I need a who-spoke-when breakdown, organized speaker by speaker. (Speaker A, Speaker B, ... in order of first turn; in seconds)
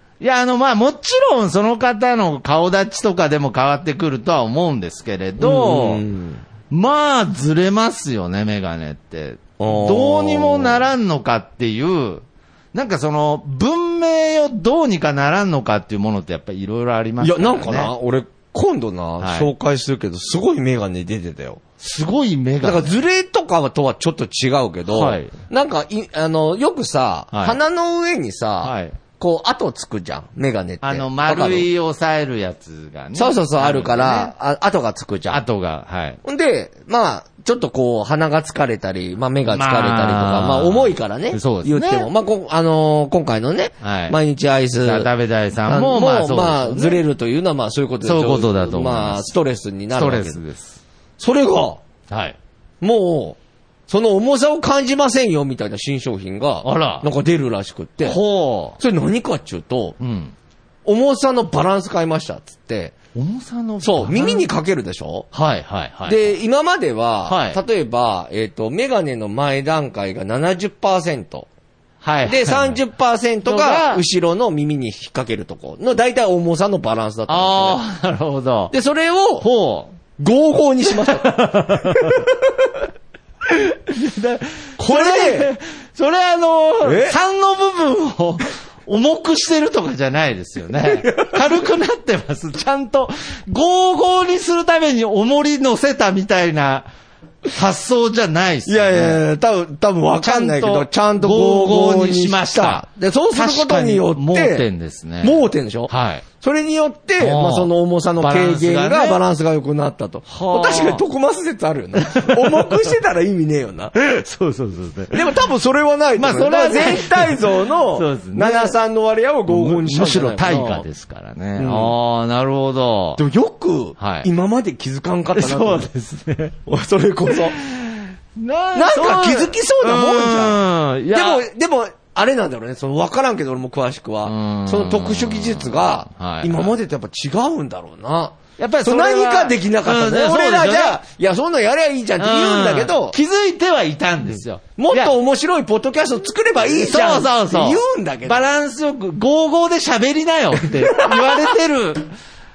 Speaker A: 0.2-6.0, 6.7-17.9, 19.2-19.5, 21.8-23.0, 24.9-25.3, 27.3-27.6, 28.6-29.0, 30.8-34.3, 35.3-36.2, 39.5-42.1, 43.8-44.2, 44.8-47.0, 48.0-49.3, 49.9-50.8, 52.1-52.4, 56.6-57.0, 58.0-58.8, 60.0-60.3, 63.1-64.5, 65.3-66.3, 67.3-67.6, 72.0-72.8, 73.5-74.0, 77.3-78.7, 79.4-80.0, 80.9-82.2, 83.5-96.9, 97.5-99.2, 100.2-106.2, 107.2-109.2, 110.3-111.0, 112.0-112.9, 114.0-115.3, 116.2-118.8, 119.5-123.2, 124.0-124.3, 125.3-126.6, 127.3-131.4, 134.2-136.8, 138.6-141.0, 142.2-145.2, 146.6-152.1
Speaker B: 5.4-6.4, 9.6-10.8, 17.2-21.6, 22.6-31.7, 33.1-35.4, 36.2-45.1, 45.7-50.4, 51.2-51.8, 52.8-58.2, 58.8-60.0, 60.9-63.0, 63.8-65.3, 66.0-71.5, 72.2-77.8, 78.7-79.5, 80.2-82.5, 84.8-85.5, 86.8-87.2, 90.9-91.4, 98.7-104.7, 105.2-114.0, 115.1-120.8, 121.5-122.0, 123.2-125.9, 126.7-127.6, 128.8-143.2, 144.8-148.4, 150.9-151.5